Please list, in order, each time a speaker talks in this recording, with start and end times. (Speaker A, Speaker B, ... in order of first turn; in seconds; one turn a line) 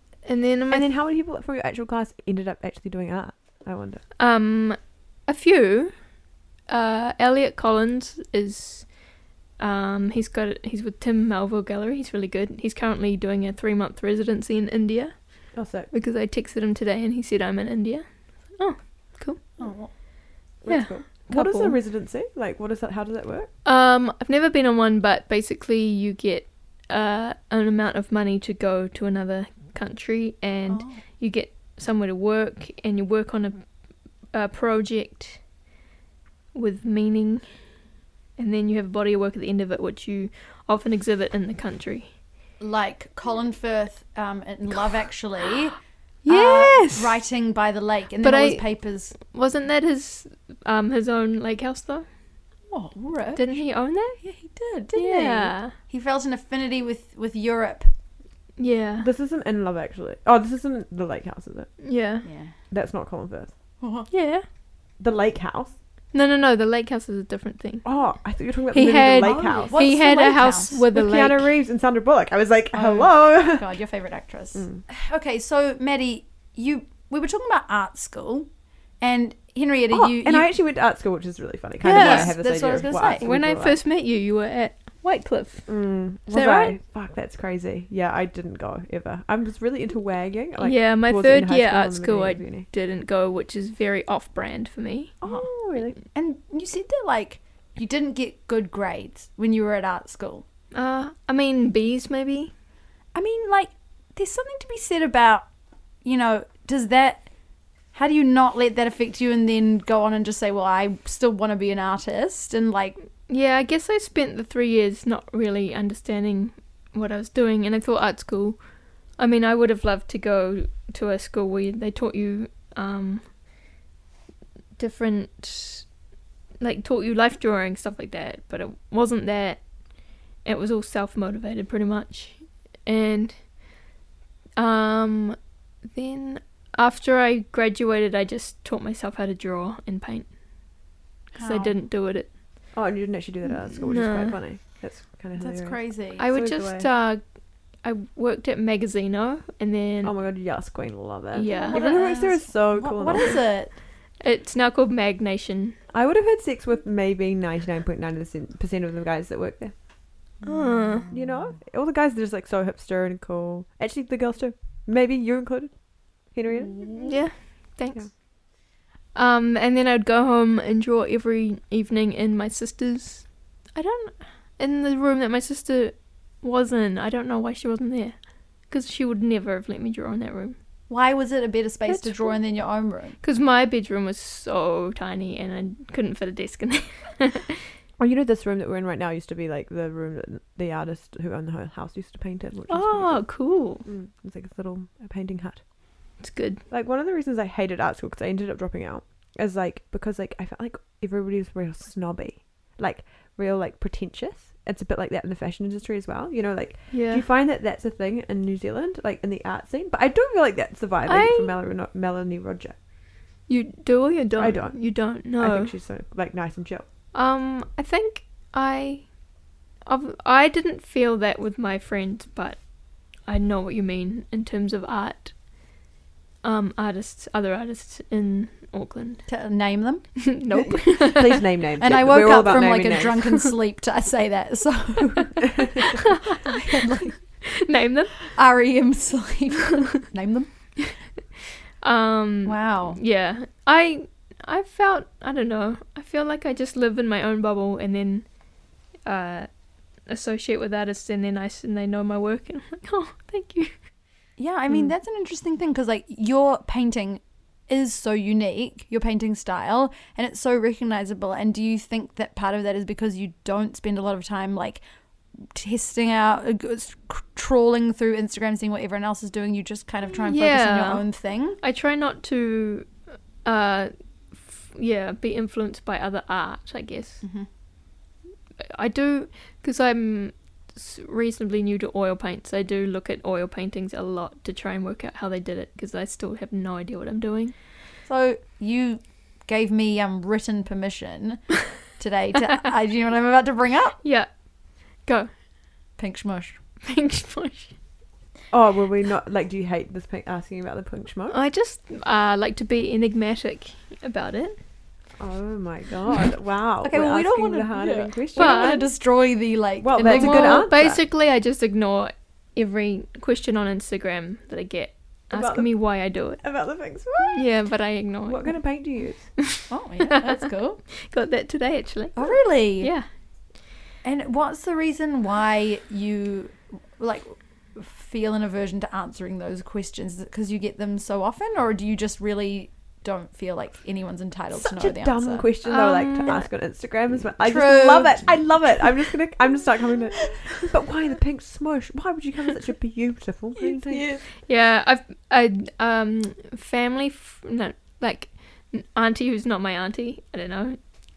Speaker A: 0.2-0.9
Speaker B: 0.7-4.0
Speaker A: 4.2-6.1
Speaker A: 6.7-9.1
Speaker A: 9.6-19.4
Speaker B: 15.5-15.9
Speaker C: 19.6-19.9
Speaker B: 20.6-23.5
Speaker A: 20.7-21.8
Speaker A: 23.6-33.7
Speaker C: 30.7-31.0
Speaker A: 34.3-35.4
Speaker A: 36.5-37.7
Speaker A: 38.4-42.1
Speaker C: 42.6-49.1
Speaker A: 46.2-47.2
Speaker A: 48.2-52.1
Speaker C: 52.7-57.9
Speaker A: 53.4-54.2
Speaker A: 54.9-55.8
Speaker A: 58.6-59.1
Speaker B: 59.0-61.8
Speaker A: 61.8-62.3
Speaker C: 62.2-62.5
Speaker B: 62.7-63.5
Speaker C: 63.8-64.1
Speaker A: 64.1-64.5
Speaker B: 65.0-65.8
Speaker A: 66.1-68.0
Speaker B: 67.8-69.8
Speaker A: 68.7-71.5
Speaker C: 69.2-70.9
Speaker B: 70.9-73.7
Speaker C: 72.7-78.5
Speaker B: 74.5-74.8
Speaker C: 79.0-80.5
Speaker B: 79.9-83.8
Speaker A: 81.8-85.7
Speaker C: 81.9-83.2
Speaker B: 85.7-92.7
Speaker A: 86.3-86.8
Speaker A: 90.6-95.2
Speaker B: 95.2-96.0
Speaker C: 95.2-100.5
Speaker A: 100.7-102.5
Speaker C: 103.1-105.5
Speaker C: 106.0-107.3
Speaker C: 107.9-113.0
Speaker A: 113.3-123.3
Speaker A: 124.8-125.9
Speaker A: 126.6-133.6
Speaker A: 134.6-140.3
Speaker A: 141.3-142.4
Speaker C: 141.4-141.8
Speaker B: 142.7-146.9
Speaker A: 143.8-144.4
Speaker C: 145.4-146.3
Speaker A: 146.2-150.2
Speaker B: 150.0-153.4
Speaker A: 151.3-151.8
Speaker C: 151.4-153.8
Speaker A: 154.2-155.8
Speaker B: 155.9-159.7
Speaker C: 160.4-161.4
Speaker A: 160.4-161.1
Speaker B: 161.1-166.9
Speaker C: 166.5-167.2
Speaker A: 166.9-168.5
Speaker A: 169.1-180.6
Speaker C: 180.9-183.2
Speaker A: 181.9-182.4
Speaker A: 183.2-187.7
Speaker B: 188.0-195.6
Speaker A: 192.7-193.8
Speaker A: 196.2-196.6
Speaker B: 196.7-212.8
Speaker A: 206.9-207.2
Speaker A: 211.1-211.6
Speaker A: 213.5-215.8
Speaker B: 214.4-216.9
Speaker A: 217.1-219.1
Speaker A: 219.9-222.6
Speaker A: 223.2-225.4
Speaker A: 226.4-229.3
Speaker C: 229.3-230.3
Speaker A: 230.3-231.4
Speaker B: 230.5-233.3
Speaker C: 231.8-237.2
Speaker B: 235.4-235.8
Speaker A: 236.2-236.9
Speaker A: 237.4-238.3
Speaker C: 238.3-240.7
Speaker A: 241.8-248.3
Speaker C: 242.4-243.0
Speaker A: 249.0-249.5
Speaker A: 250.1-253.8
Speaker C: 254.4-264.8
Speaker C: 265.4-271.6
Speaker A: 270.2-271.1
Speaker A: 271.6-277.2
Speaker C: 277.2-277.5
Speaker A: 278.6-287.5
Speaker C: 288.1-294.0
Speaker A: 294.0-294.3
Speaker A: 294.9-295.3
Speaker C: 296.0-296.6
Speaker A: 296.8-297.8
Speaker B: 298.5-301.4
Speaker A: 301.3-304.6
Speaker B: 305.2-308.8
Speaker C: 306.8-310.7
Speaker A: 308.4-308.9
Speaker B: 309.8-311.0
Speaker A: 310.0-316.5
Speaker B: 315.3-315.8
Speaker B: 316.4-317.5
Speaker A: 317.3-318.6
Speaker B: 318.2-319.3
Speaker A: 319.4-320.4
Speaker C: 319.7-320.8
Speaker A: 321.0-323.1
Speaker C: 322.2-322.9
Speaker C: 324.0-335.5
Speaker B: 334.5-344.1
Speaker A: 335.6-336.4
Speaker C: 337.4-339.0
Speaker C: 343.6-344.2
Speaker A: 344.3-350.8